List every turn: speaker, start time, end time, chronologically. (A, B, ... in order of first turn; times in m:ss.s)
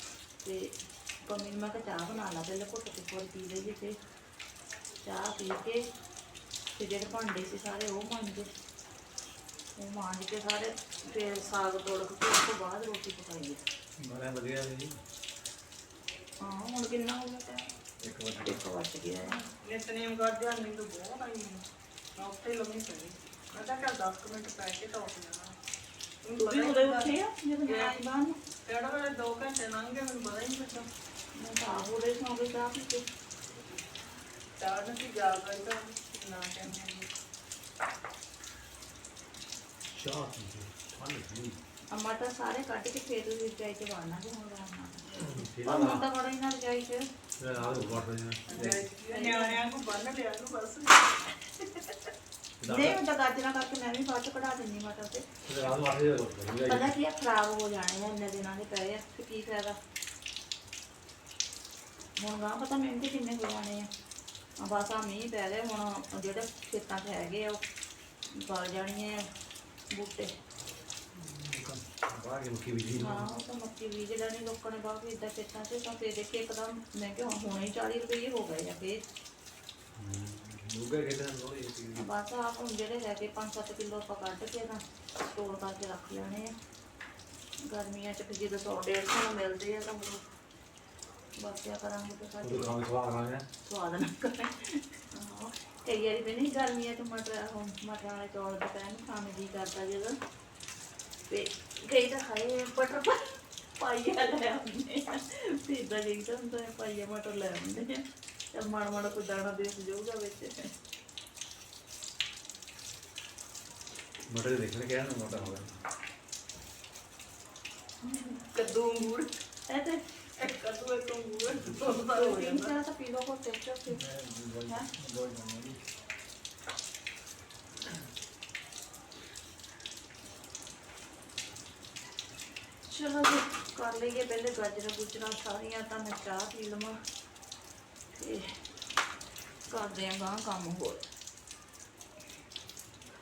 0:00.4-0:04.0 A
0:05.0-0:05.8 A
0:06.8-0:08.5 A
0:09.8-0:13.6 A
0:14.0-0:15.0 B
0:16.4-0:17.7 A
0:18.0-0:18.6 B
0:18.4-0:19.4 A
0:19.2-0:21.6 C
0:22.2-0:25.6 C
0:26.2-0:27.2 C
0:26.4-0:28.4 A
0:27.7-0:28.0 C
0:28.6-0:30.9 C
0:31.4-0:33.0 A
0:34.6-0:37.1 C
0:39.9-0:41.6 B
0:41.9-0:47.0 A
0:45.2-0:46.0 B
0:47.4-0:48.8 B
0:48.5-0:52.0 C
0:49.1-0:49.6 A
0:52.6-0:53.0 B
0:52.7-0:55.3 A
0:55.5-0:56.9 B
0:56.7-0:59.8 A
1:02.2-1:03.9 A
1:04.6-1:07.6 A
1:08.3-1:09.3 A
1:09.9-1:10.3 A
1:11.1-1:13.3 B
1:13.0-1:19.0 A
1:20.0-1:22.0 B
1:22.0-1:26.6 A
1:27.7-1:30.2 A
1:31.4-1:32.8 A
1:32.4-1:33.5 B
1:33.6-1:40.2 A
1:41.3-1:50.7 A
1:54.3-1:55.8 B
1:58.0-1:58.4 A
1:58.5-1:59.3 C
1:59.7-2:00.0 A
2:00.4-2:02.7 C
2:02.1-2:04.1 A
2:04.0-2:05.8 B
2:12.9-2:17.0 A
2:18.2-2:18.4 A
2:19.7-2:21.1 A